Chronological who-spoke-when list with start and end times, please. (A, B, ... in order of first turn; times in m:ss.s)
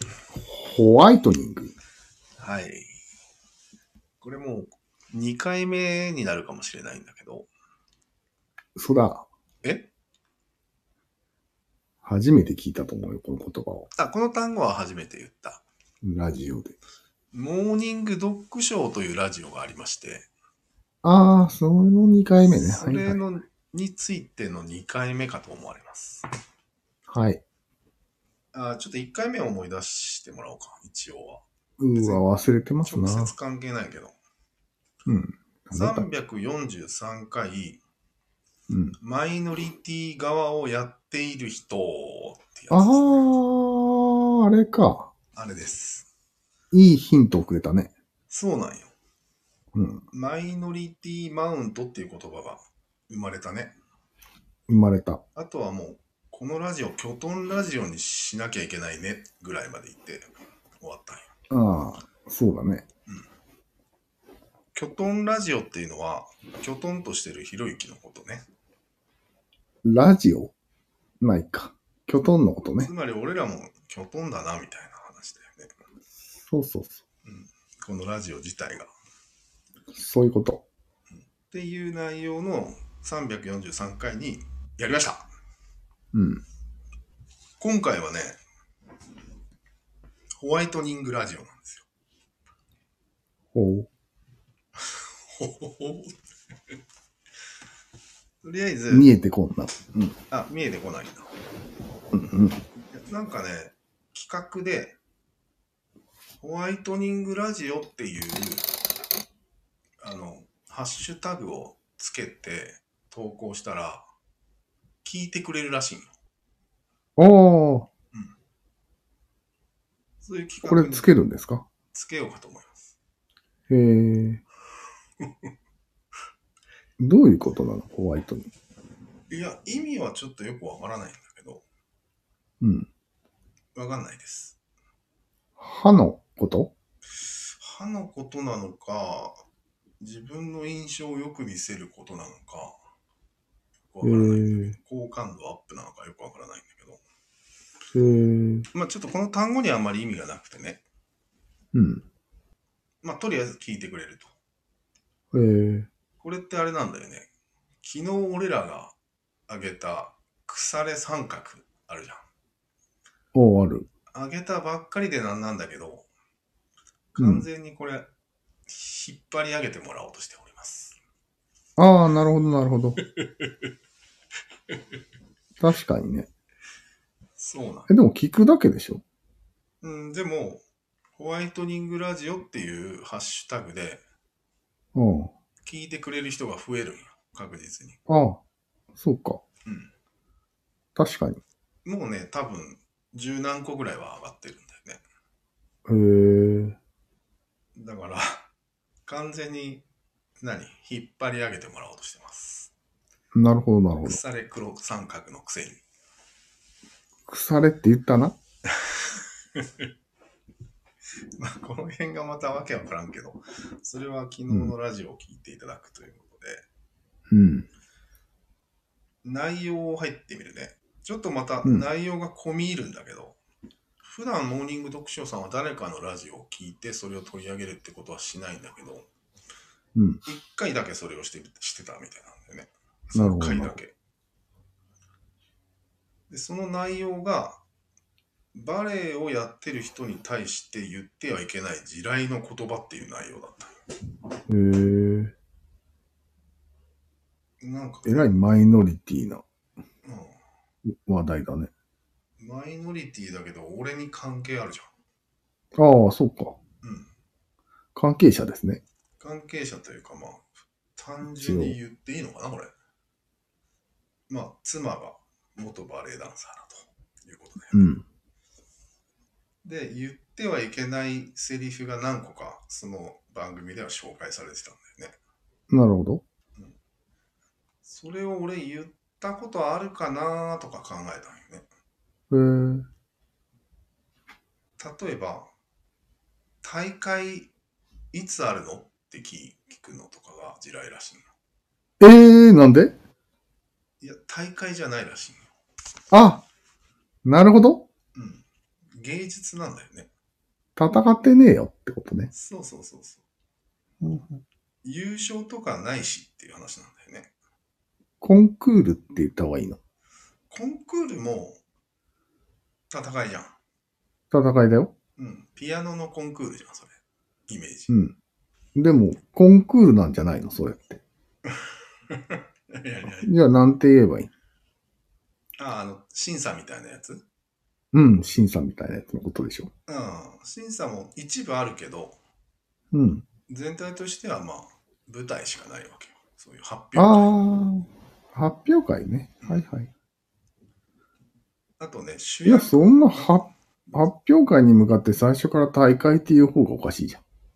0:00.4-0:01.8 A
0:02.4-0:03.0 B
0:04.2-0:07.5 B
0:08.8-0:09.3 A
0:09.6-0:09.9 B
0:12.0-0:13.9 A
0:14.0-0:15.6 B
0:16.0-0:16.8 A
0:17.3-0:20.3 B
0:21.0-0:23.2 A
0:22.4-0:26.3 B
0:27.1-0:27.4 A
0:28.5-0:31.4 B
0:31.8-0:33.3 A
0:31.9-0:32.2 B
0:32.8-0:34.2 B
0:35.1-0:36.0 A
0:35.7-0:37.8 B
0:38.7-0:39.0 A
0:39.0-0:43.2 B
0:42.7-0:45.1 A
0:45.3-0:46.1 B
0:46.7-0:47.9 A
0:48.3-0:48.9 B
0:49.8-0:50.0 A
0:50.1-0:53.8 B
0:54.7-0:55.2 A
0:55.4-1:00.3 B
1:00.8-1:01.3 B
1:01.5-1:02.9 A
1:04.8-1:08.4 B
1:09.8-1:10.5 A
1:11.2-1:12.9 A
1:12.8-1:15.7 B
1:16.5-1:17.0 A
1:17.3-1:18.9 B
1:19.9-1:20.6 A
1:21.5-1:25.2 B
1:26.1-1:26.4 A
1:27.6-1:28.4 B
1:30.4-1:31.8 B
1:33.5-1:33.9 A
1:34.8-1:36.2 B
1:38.4-1:39.1 B
1:38.9-1:40.2 A
1:40.3-1:41.3 B
1:42.1-1:42.6 A
1:42.9-1:45.0 B
1:46.4-1:48.7 B
1:50.0-1:54.1 B
1:55.0-1:56.1 B
1:57.2-1:57.9 A
2:00.2-2:01.2 B
2:00.6-2:01.7 A
2:01.9-2:02.9 B
2:03.7-2:04.4 A
2:07.0-2:08.5 A
2:09.3-2:11.6 B
2:12.6-2:12.9 A
2:13.8-2:14.6 B
2:15.6-2:16.7 A
2:17.5-2:19.4 B
2:20.0-2:22.8 B
2:23.9-2:27.0 B
2:24.0-2:24.8 A
2:27.9-2:28.7 A
2:28.7-2:30.8 B
2:31.7-2:32.0 A
2:33.0-2:34.3 B
2:35.3-2:35.9 A
2:36.2-2:37.3 B
2:37.8-2:38.9 B
2:39.5-2:42.2 B
2:43.4-2:43.9 A
2:44.1-2:46.1 B
2:47.2-2:48.1 B
2:47.2-2:47.5 A
2:48.7-2:51.0 B
2:51.8-2:53.0 A
2:53.2-2:53.5 B
2:55.6-2:56.3 A
2:57.4-2:57.9 B
2:57.9-2:59.0 A
2:59.8-3:00.6 B
3:01.2-3:04.0 B
3:05.0-3:05.3 A
3:05.6-3:08.0 B
3:08.1-3:08.4 A
3:08.9-3:09.4 A
3:09.7-3:09.9 B
3:11.0-3:11.4 A
3:11.8-3:15.0 B
3:15.9-3:16.8 A
3:17.8-3:18.5 B
3:19.1-3:19.8 B
3:20.4-3:22.7 B
3:23.4-3:24.2 A
3:24.0-3:25.8 B
3:27.3-3:28.4 A
3:28.8-3:29.8 B
3:31.4-3:36.6 B
3:37.3-3:37.7 A
3:39.2-3:43.4 B
3:44.0-3:49.1 B
3:50.0-3:50.2 A
3:50.2-3:53.9 B
3:53.1-3:53.8 A
3:56.3-3:57.6 B
3:58.5-4:03.8 B
4:04.5-4:05.3 A
4:07.6-4:08.5 B
4:08.0-4:09.4 A
4:10.0-4:10.4 B
4:10.8-4:11.7 A
4:12.4-4:14.9 B
4:15.8-4:16.6 A
4:16.8-4:17.1 B
4:18.0-4:18.8 A
4:19.2-4:22.7 B
4:21.2-4:21.8 A
4:24.3-4:28.0 B
4:27.7-4:28.0 A
4:29.6-4:35.1 B
4:35.7-4:36.2 A
4:37.8-4:41.6 B
4:42.3-4:42.9 A
4:44.8-4:45.5 B
4:46.6-4:47.5 B
4:48.1-4:51.2 B
4:52.0-4:53.0 A
4:54.0-4:55.5 B
4:56.1-4:56.4 A
4:57.2-4:57.9 A
4:58.2-4:58.4 B
4:59.0-5:00.1 B
5:00.8-5:02.3 A
5:02.3-5:03.2 B
5:04.0-5:04.4 A
5:04.8-5:07.3 B
5:08.2-5:09.8 A
5:10.5-5:11.6 B
5:12.9-5:13.6 B
5:14.3-5:14.9 A
5:15.2-5:17.0 B
5:17.5-5:18.0 B
5:17.9-5:18.2 A
5:18.8-5:21.0 A
5:22.1-5:23.3 B
5:23.1-5:24.3 A
5:25.6-5:27.2 B
5:27.9-5:29.7 A
5:29.9-5:32.2 B
5:32.9-5:33.3 A
5:33.5-5:37.3 B
5:37.0-5:39.9 A
5:41.8-5:44.1 B
5:42.4-5:47.2 A